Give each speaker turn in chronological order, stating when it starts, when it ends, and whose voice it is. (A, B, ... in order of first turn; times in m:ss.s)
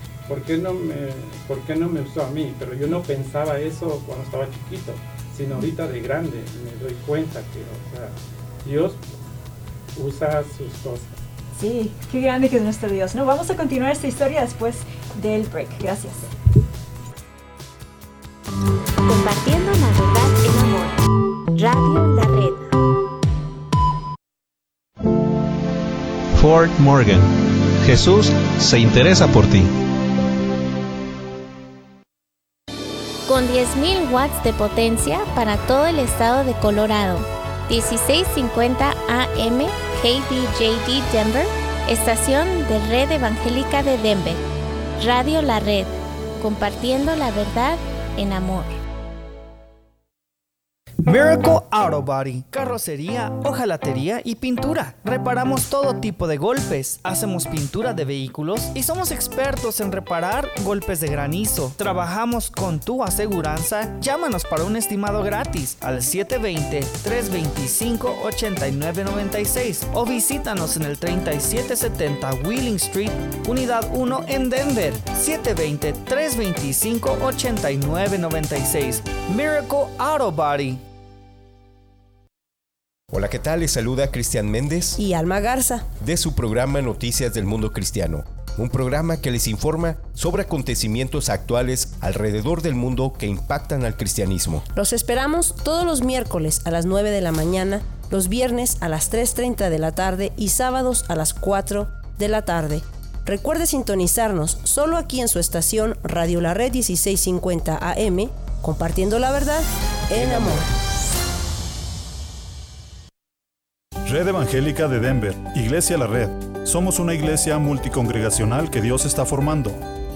0:00.3-0:09.0 A
0:10.0-0:11.2 A
0:11.6-0:16.3 B
0:19.0-0:21.0 C
0:21.6-0:22.7 C
0:26.4-0:27.3 D
0:27.8-0:29.7 D
0:33.3-0:44.4 C
0:45.0-0:48.7 C
0:51.0-1:20.8 E
1:23.1-1:25.0 F
1:25.0-1:25.9 G
1:26.0-1:34.6 F
1:34.7-1:50.7 G
1:54.0-1:59.8 H